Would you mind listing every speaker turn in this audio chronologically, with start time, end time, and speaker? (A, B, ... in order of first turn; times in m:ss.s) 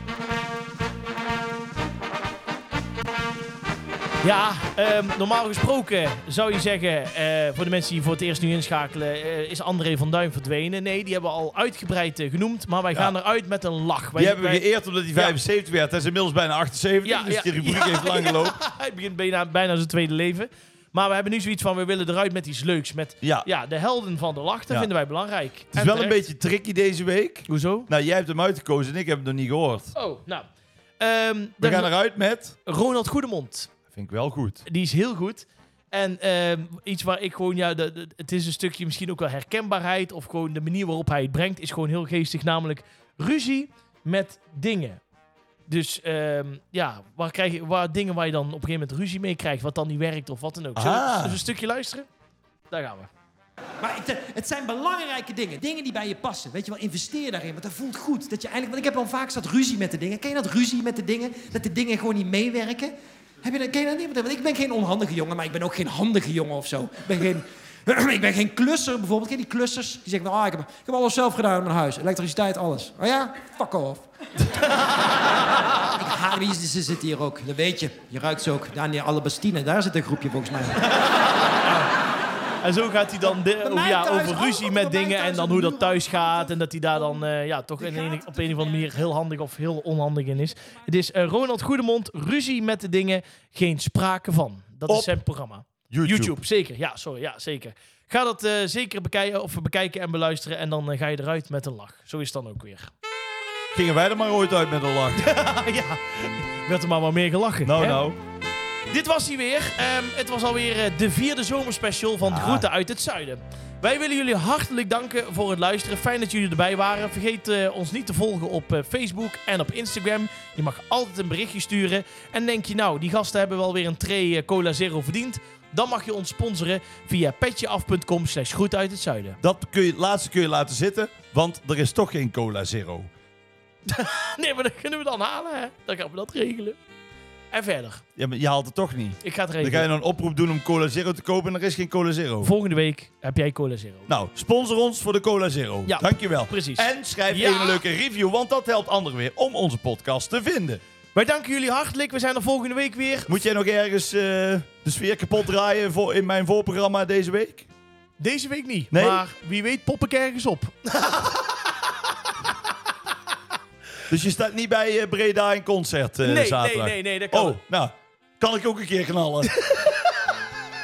0:04.2-0:15.4 A
0:14.2-0:18.6 B
0:17.0-0:26.2 A
0:23.2-0:23.5 B
0:25.7-0:29.9 B
0:27.5-0:27.9 A
0:30.0-0:30.4 A
0:31.0-0:31.9 A
0:31.6-0:32.6 B
0:32.6-0:33.7 A
0:33.9-0:34.6 B
0:34.6-0:45.0 A
0:45.7-0:52.1 A
0:50.8-0:51.4 B
0:52.7-0:53.1 A
0:53.8-1:14.0 C
1:15.8-1:20.9 C
1:20.9-1:21.9 A
1:22.6-1:42.9 A
1:23.6-1:26.5 C
1:34.9-1:35.2 B
1:35.9-1:36.4 B
1:43.7-1:45.3 B
1:45.2-1:48.0 A
1:47.6-1:48.2 B
1:48.9-2:09.4 A
1:52.2-1:52.7 B
2:09.4-2:13.1 B
2:13.9-2:16.8 A
2:17.5-2:18.0 A
2:18.2-2:22.5 B
2:19.2-2:19.9 A
2:22.4-2:24.1 A
2:24.1-2:30.8 B
2:25.8-2:27.8 A
2:31.1-2:33.4 A
2:33.3-2:37.7 B
2:38.2-2:42.1 A
2:38.9-2:39.2 B
2:44.1-2:49.6 B
2:46.2-2:47.6 A
2:49.5-2:50.4 A